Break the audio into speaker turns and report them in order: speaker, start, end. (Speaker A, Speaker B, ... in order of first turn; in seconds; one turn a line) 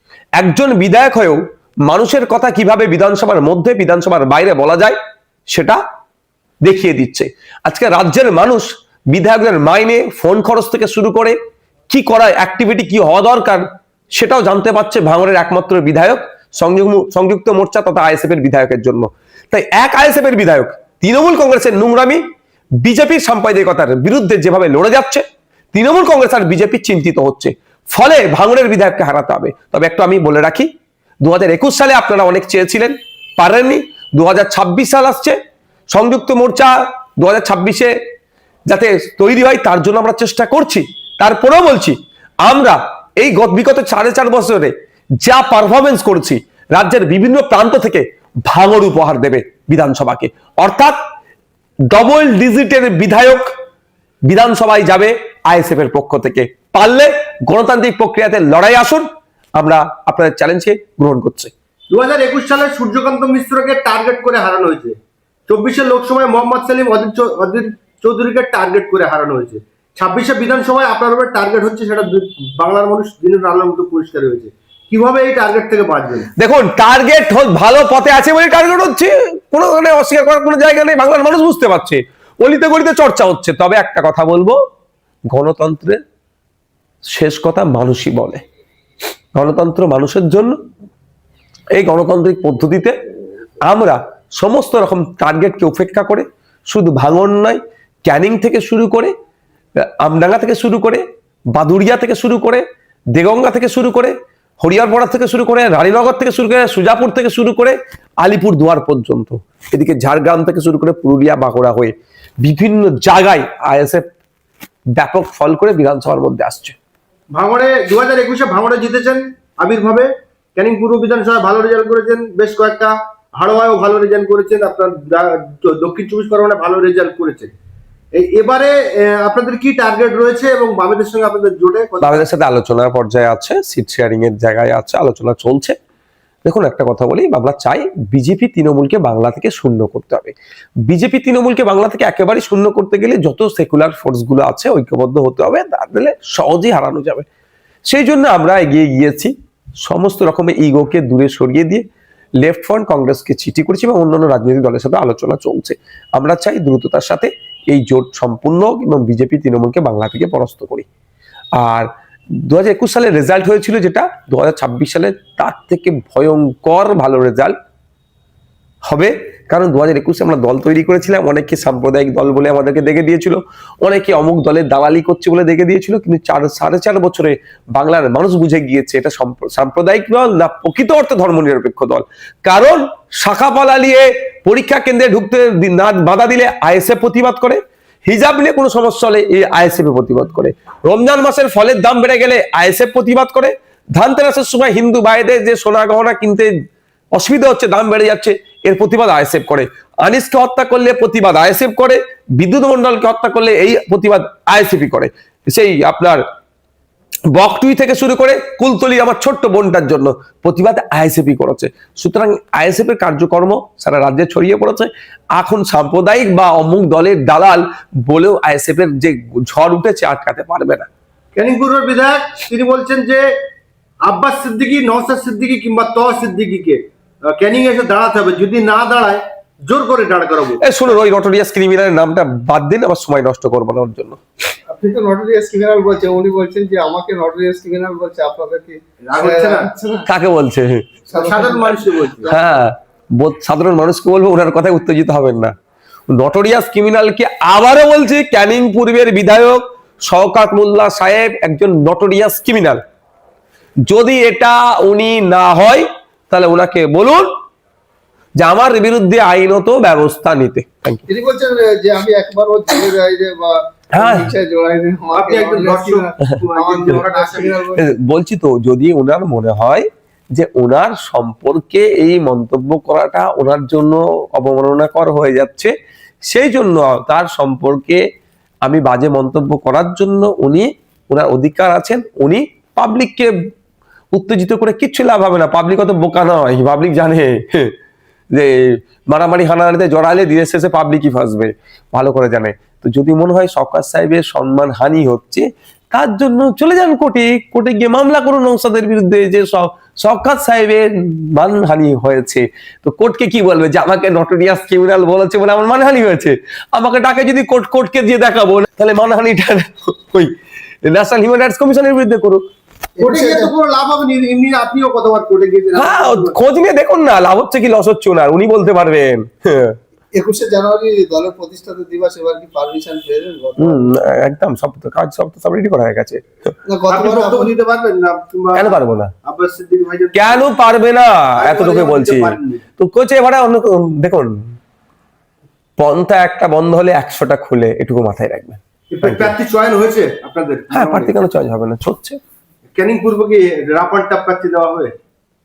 Speaker A: 0.4-5.0
Speaker A: 5.5-5.8
Speaker A: 6.6-11.4
Speaker A: 11.9-22.2
Speaker A: 22.8-30.7
Speaker A: 31.2-35.4
Speaker A: 35.9-38.0
Speaker A: 38.7-51.0
Speaker A: 51.9-53.5
Speaker A: 54.3-61.5
Speaker B: 61.9-64.9
Speaker B: 65.5-76.3
Speaker A: 76.4-84.6
Speaker A: 85.3-86.0
Speaker A: 87.1-88.4
Speaker A: 89.3-90.5
Speaker A: 91.7-92.9
Speaker A: 93.6-99.1
Speaker A: 99.8-114.0
Speaker A: 115.0-116.8
Speaker B: 117.3-127.5
Speaker B: 128.1-132.3
Speaker A: 132.0-135.8
Speaker A: 136.4-140.3
Speaker A: 140.8-147.2
Speaker A: 147.8-151.8
Speaker A: 152.4-160.8
Speaker A: 161.5-161.9
Speaker A: 162.4-167.5
Speaker A: 168.9-196.5
Speaker A: 197.1-206.2
Speaker A: 207.3-220.9
Speaker B: 221.3-223.3
Speaker B: 224.0-226.8
Speaker B: 227.3-230.6
Speaker A: 230.6-234.2
Speaker C: 234.7-240.1
Speaker B: 239.0-239.7
Speaker A: 240.0-240.9
Speaker C: 241.1-242.6
Speaker B: 241.1-242.3
Speaker A: 242.2-245.5
Speaker A: 246.1-252.8
Speaker A: 253.8-257.3
Speaker A: 258.4-261.1
Speaker C: 261.1-267.9
Speaker A: 263.9-264.3
Speaker B: 265.1-267.6
Speaker A: 267.7-275.7
Speaker A: 276.3-278.0
Speaker A: 278.6-283.3
Speaker A: 284.1-287.7
Speaker A: 288.3-310.3
Speaker A: 310.8-312.4
Speaker C: 313.0-313.5
Speaker B: 313.0-316.3
Speaker A: 315.8-319.8
Speaker C: 320.1-323.9
Speaker A: 323.6-326.2
Speaker C: 326.6-327.5
Speaker B: 326.9-330.5
Speaker A: 328.5-329.1
Speaker A: 330.1-334.5
Speaker B: 331.4-332.6
Speaker A: 335.8-339.3
Speaker B: 338.9-341.1
Speaker A: 340.7-342.2
Speaker B: 342.7-344.9